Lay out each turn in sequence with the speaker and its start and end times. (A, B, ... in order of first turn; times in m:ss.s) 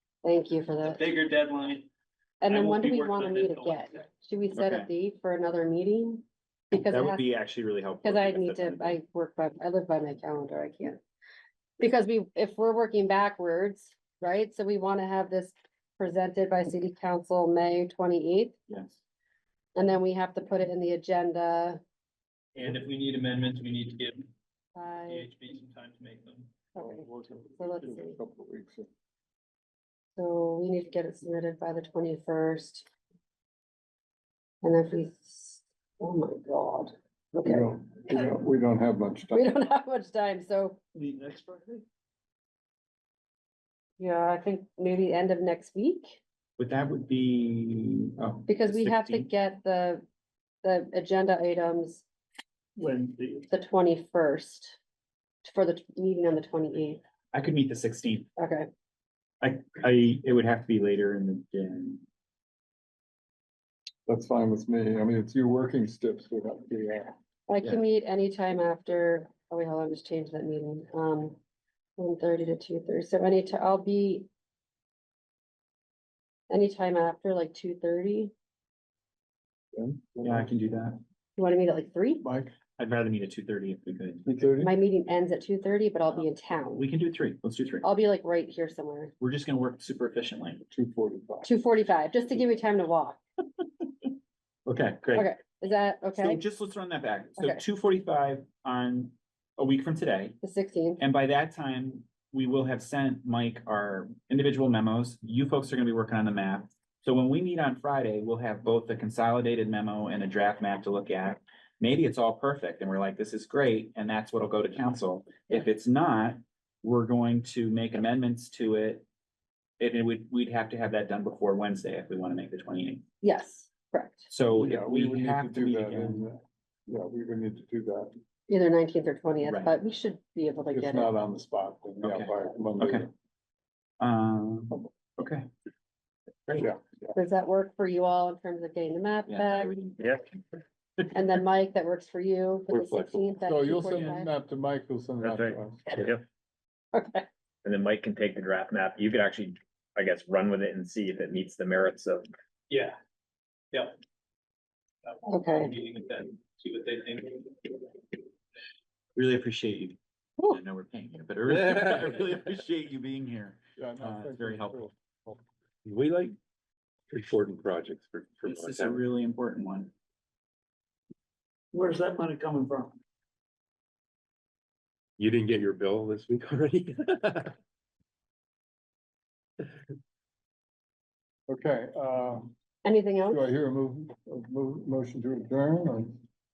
0:00.2-0:01.0 A
0:00.8-0:01.9 B
0:02.4-0:07.2 A
0:02.4-0:04.1 B
0:04.5-0:04.9 C
0:06.8-0:09.0 C
0:08.0-0:11.0 A
0:11.8-0:18.6 A
0:18.7-0:19.0 C
0:19.8-0:21.8 A
0:22.5-0:24.3 B
0:24.7-0:25.3 A
0:25.0-0:26.6 B
0:26.7-0:28.2 A
0:26.8-0:28.9 D
0:30.2-0:32.9 A
0:34.6-0:38.3 A
0:37.3-0:39.6 D
0:39.3-0:40.8 A
0:41.0-0:41.8 B
0:44.0-0:46.2 A
0:46.6-0:49.3 C
0:48.5-0:50.0 A
0:50.6-0:52.0 A
0:52.8-0:53.4 C
0:53.5-0:54.8 A
0:55.4-0:57.0 A
0:57.3-0:58.3 C
0:58.4-0:58.7 A
0:59.4-1:02.0 C
1:04.0-1:07.1 D
1:07.5-1:11.4 A
1:12.0-1:14.3 A
1:16.5-1:18.3 A
1:19.7-1:20.5 D
1:20.2-1:21.0 C
1:21.4-1:22.2 A
1:22.2-1:22.5 D
1:22.8-1:24.2 C
1:24.2-1:24.7 D
1:24.6-1:26.9 A
1:26.8-1:27.9 C
1:27.8-1:29.1 A
1:29.2-1:30.6 C
1:30.7-1:31.5 D
1:31.4-1:33.2 A
1:34.6-1:35.3 C
1:35.1-1:36.4 A
1:36.2-1:40.4 C
1:37.4-1:37.6 A
1:40.4-1:41.0 A
1:41.0-1:59.0 C
1:59.8-2:03.0 C
2:03.2-2:04.3 A
2:04.3-2:06.2 C
2:04.5-2:08.1 D
2:08.5-2:11.1 A
2:09.4-2:09.7 C
2:10.7-2:13.1 D
2:12.0-2:13.1 C
2:14.0-2:15.5 C
2:17.1-2:19.8 A
2:19.3-2:20.4 C
2:21.1-2:24.3 A
2:22.7-2:23.2 E
2:23.4-2:26.1 D
2:25.2-2:26.2 F
2:26.9-2:27.3 A
2:27.6-2:32.2 F
2:32.7-2:33.0 B
2:35.0-2:37.9 B
2:35.2-2:35.7 A
2:39.2-2:44.9 C
2:43.8-2:45.4 D
2:45.8-2:46.4 E
2:47.1-2:49.0 E
2:48.4-2:49.9 C
2:52.4-2:52.8 C
2:55.2-2:57.5 E
3:01.5-3:02.5 D
3:02.8-3:03.4 A
3:03.3-3:06.2 D